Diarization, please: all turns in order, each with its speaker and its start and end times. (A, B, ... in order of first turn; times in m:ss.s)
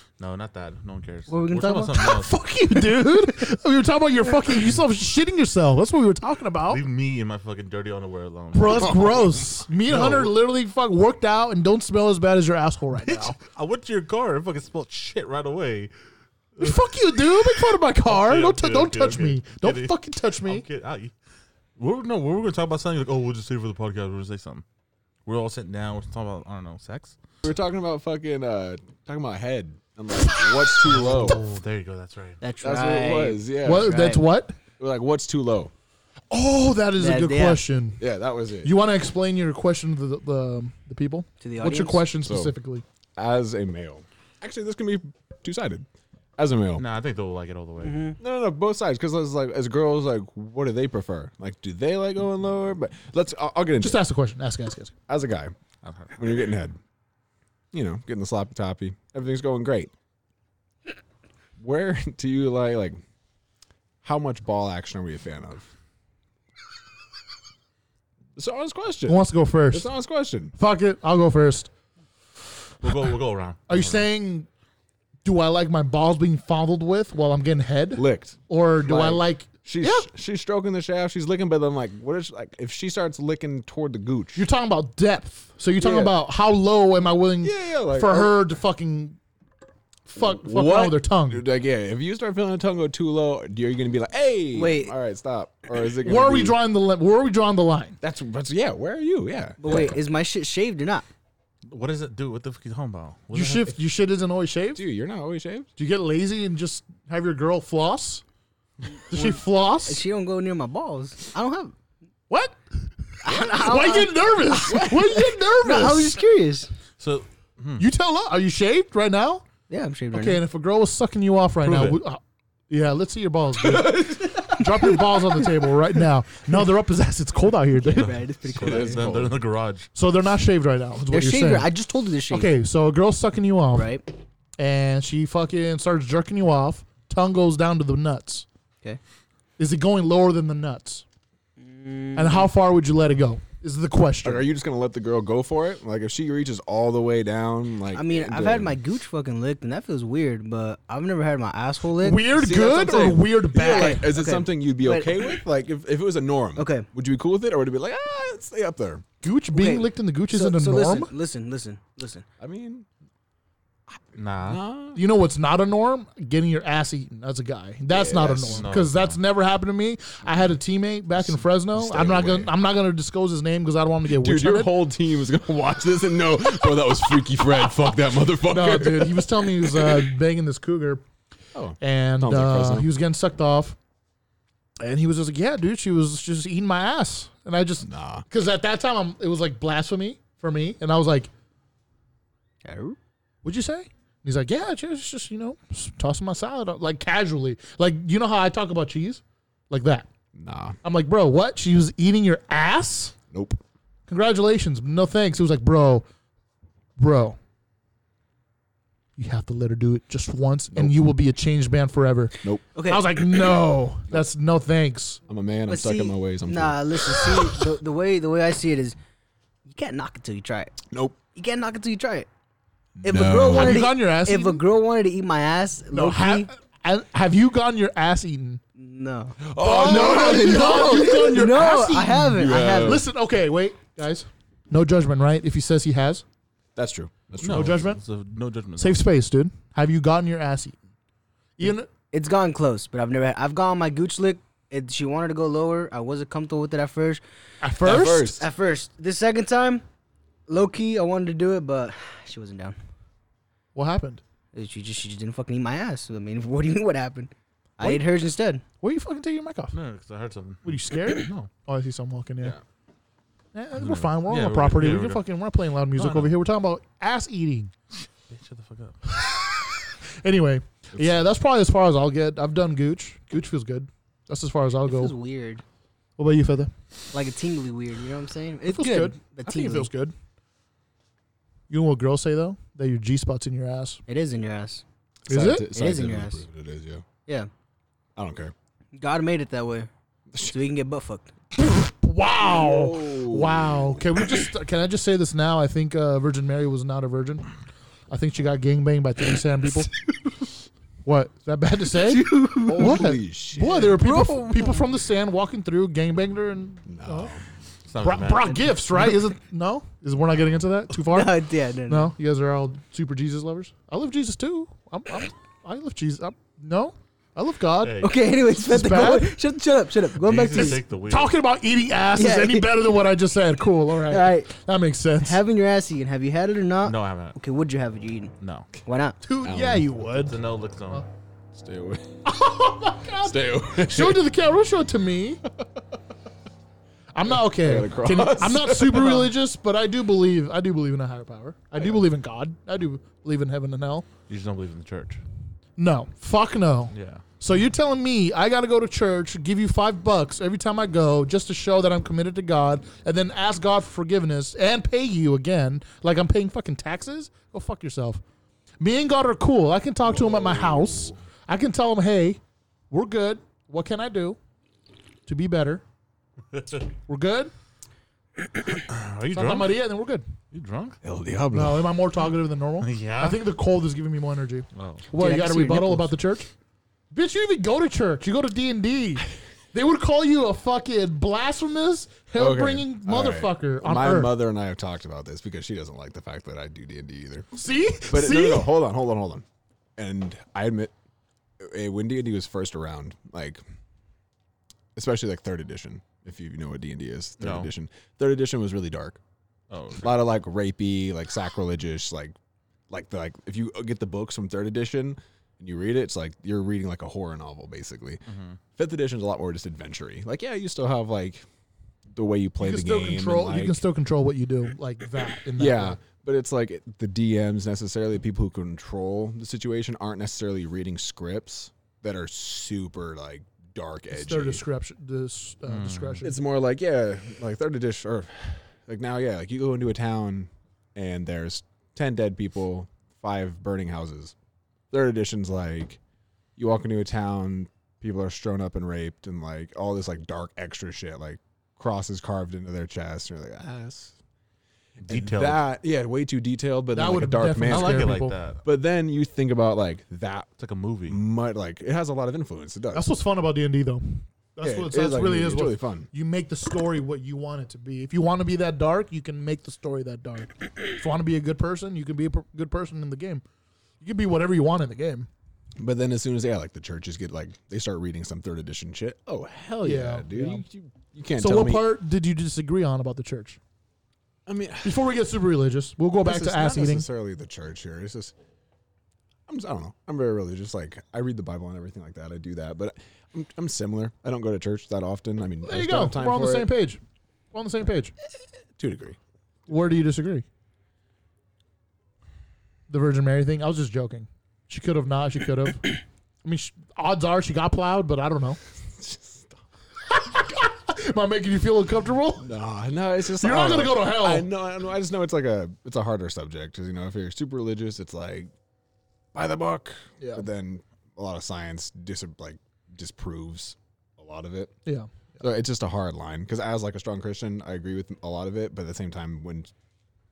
0:00.2-0:02.4 A
0:01.3-0:02.0 B
0:02.0-0:06.8 C
0:06.7-0:10.3 A
0:08.5-0:13.4 C
0:12.9-0:15.9 A
0:16.6-0:16.8 A
0:16.6-0:20.6 C
0:17.6-0:21.1 A
0:21.8-0:24.6 A
0:25.2-0:27.2 A
0:27.4-0:31.4 D
0:30.8-0:32.4 A
0:32.4-0:34.2 B
0:32.6-0:34.1 D
0:33.6-0:34.6 C
0:34.8-0:35.7 D
0:36.3-0:38.0 C
0:37.0-0:37.6 B
0:38.0-0:38.7 D
0:38.6-0:42.8 C
0:41.4-0:42.1 B
0:42.2-0:42.5 D
0:43.2-0:46.8 D
0:46.8-0:48.0 A
0:47.8-0:48.2 B
0:48.2-0:54.0 D
0:53.8-0:54.9 C
0:55.1-0:55.5 D
0:55.8-0:56.3 A
0:56.1-0:56.8 D
0:57.7-0:59.9 D
1:01.6-1:03.0 D
1:04.0-1:05.7 D
1:08.4-1:10.5 D
1:09.1-1:09.9 C
1:10.6-1:11.7 C
1:12.8-1:14.1 A
1:13.7-1:14.5 C
1:15.2-1:20.0 C
1:17.9-1:24.4 D
1:24.3-1:29.2 C
1:25.8-1:26.2 D
1:27.4-1:28.4 D
1:30.1-1:31.4 C
1:30.2-1:36.6 D
1:34.5-1:34.9 B
1:36.0-1:38.0 C
1:38.0-1:39.9 D
1:39.6-1:41.0 B
1:41.7-1:43.8 A
1:43.3-1:44.8 C
1:44.7-1:45.7 D
1:45.8-1:48.2 C
1:49.1-1:50.0 C
1:49.1-1:51.7 B
1:52.3-1:52.6 C
1:53.2-1:56.2 C
1:53.2-1:56.7 B
1:54.7-1:55.0 D
1:57.0-1:57.8 A
1:57.8-1:59.4 C
1:59.7-2:00.4 B
2:00.1-2:08.2 C
2:01.6-2:02.0 A
2:03.8-2:05.4 B
2:07.8-2:09.0 B
2:07.9-2:09.9 A
2:08.5-2:09.4 D
2:09.9-2:11.7 C
2:11.1-2:12.5 B
2:12.3-2:13.9 C
2:13.7-2:14.0 B
2:14.6-2:18.4 C
2:19.6-2:21.0 C
2:21.6-2:22.5 B
2:22.1-2:24.4 C
2:24.2-2:28.8 D
2:27.9-2:32.3 B
2:32.0-2:34.1 C
2:32.3-2:39.0 D
2:33.6-2:35.3 B
2:36.6-2:36.9 B
2:39.2-2:41.1 C
2:39.5-2:42.2 B
2:42.4-2:42.8 D
2:43.9-2:45.0 D
2:44.2-2:44.6 A
2:44.9-2:54.7 C
2:47.9-2:48.7 D
2:48.5-2:49.2 A
2:51.2-2:52.5 D
2:54.1-3:00.0 D
2:58.5-3:01.0 C
3:01.5-3:02.9 D
3:01.8-3:03.8 C
3:04.8-3:11.3 C
3:07.8-3:08.2 D
3:12.6-3:13.0 B
3:13.4-3:20.1 C
3:20.3-3:20.8 D
3:20.8-3:23.2 C
3:23.3-3:23.6 D
3:24.1-3:26.0 C
3:27.0-3:27.4 C
3:29.2-3:35.2 C
3:32.7-3:33.0 B
3:35.3-3:37.6 D
3:35.7-3:39.0 B
3:39.6-3:40.8 B
3:40.9-3:41.2 D
3:41.3-3:42.3 B
3:43.0-3:43.9 D
3:43.0-3:46.5 B
3:43.4-3:44.6 C
3:45.9-3:48.6 C
3:48.8-3:53.0 B
3:49.4-3:51.4 D
3:49.6-3:56.2 C
3:52.3-3:53.1 D
3:56.8-3:57.8 D
3:57.4-3:59.0 A
3:57.4-3:58.0 C
3:58.8-4:00.8 C
4:01.6-4:01.9 C
4:02.1-4:07.2 B
4:07.6-4:08.3 C
4:07.8-4:08.5 D
4:07.9-4:09.8 B
4:10.5-4:12.8 B
4:13.7-4:14.2 C
4:14.5-4:18.6 B
4:18.8-4:19.8 C
4:19.7-4:21.5 A
4:20.6-4:22.6 C
4:23.5-4:27.7 C
4:23.8-4:25.2 A
4:25.9-4:26.3 A
4:28.0-4:29.0 A
4:29.1-4:35.1 C
4:30.9-4:31.2 D
4:34.8-4:35.6 B
4:36.2-4:36.7 C
4:37.1-4:39.9 B
4:38.6-4:40.1 C
4:41.7-4:44.0 C
4:44.1-4:44.8 B
4:45.2-4:47.0 D
4:45.3-4:45.7 C
4:45.7-4:46.4 B
4:48.2-4:48.5 D
4:48.9-4:51.3 B
4:51.5-4:57.5 C
4:52.4-4:54.1 D
4:58.1-4:59.9 C
5:01.0-5:07.3 C
5:01.9-5:03.1 B
5:02.6-5:04.0 D
5:03.8-5:04.8 B
5:06.8-5:07.4 D
5:07.9-5:08.8 A
5:08.0-5:11.4 C
5:10.9-5:12.1 B
5:11.9-5:19.4 C
5:17.8-5:18.1 A
5:18.0-5:20.8 B
5:20.2-5:21.3 A
5:20.5-5:25.4 C
5:22.1-5:22.9 B
5:24.1-5:24.5 B
5:25.2-5:28.3 B
5:26.8-5:27.4 A
5:28.4-5:28.7 A
5:28.8-5:29.2 B
5:29.2-5:30.4 C
5:29.4-5:29.9 D
5:30.1-5:31.0 A
5:31.5-5:32.2 D
5:32.2-5:35.4 C
5:33.2-5:34.2 D
5:37.1-5:44.1 C
5:37.3-5:39.3 D
5:41.8-5:42.0 D
5:44.3-5:45.2 A
5:45.8-5:58.2 C
5:46.9-5:47.2 A
5:58.8-6:02.4 C
6:00.1-6:01.2 D
6:02.9-6:04.4 C
6:05.2-6:05.8 C
6:07.1-6:07.5 C
6:08.8-6:09.8 A
6:09.3-6:10.2 C
6:10.5-6:11.0 A
6:11.0-6:11.9 D
6:11.5-6:16.5 C
6:12.8-6:13.4 A
6:14.7-6:15.0 A
6:15.1-6:16.1 B
6:17.1-6:24.3 C
6:22.4-6:27.5 D
6:27.5-6:28.7 C
6:28.1-6:29.4 D
6:30.0-6:30.9 D
6:31.6-6:33.6 D
6:34.9-6:39.2 D
6:37.4-6:37.7 A
6:39.7-6:40.2 A
6:40.0-6:42.3 D
6:42.9-6:48.2 D
6:48.3-6:48.6 A
6:48.8-6:51.4 D
6:52.1-6:53.8 D
6:52.6-6:56.0 C
6:55.6-7:04.6 D
7:04.1-7:06.4 C
7:05.6-7:06.2 A
7:06.2-7:14.3 D
7:14.9-7:16.0 D
7:16.6-7:24.1 D
7:25.0-7:30.5 D
7:25.0-7:25.6 A
7:26.9-7:28.4 C
7:27.6-7:28.6 A
7:30.6-7:31.2 A
7:31.1-7:33.1 D
7:32.9-7:43.4 C
7:34.6-7:36.1 D
7:44.0-7:45.3 C
7:45.8-7:52.0 D
7:49.8-7:50.6 C
7:51.4-7:53.6 C
7:54.4-7:55.1 D
7:54.8-7:57.1 C
7:56.2-7:58.3 D
7:59.5-8:06.7 D
8:05.6-8:07.0 C
8:07.5-8:08.1 C
8:08.8-8:09.2 D
8:09.7-8:10.4 C
8:12.9-8:18.6 C
8:19.0-8:19.6 D
8:20.1-8:22.5 C
8:22.4-8:28.5 D
8:23.3-8:24.5 C
8:29.3-8:34.7 D
8:30.2-8:30.4 C
8:34.8-8:35.4 C
8:35.4-8:39.7 D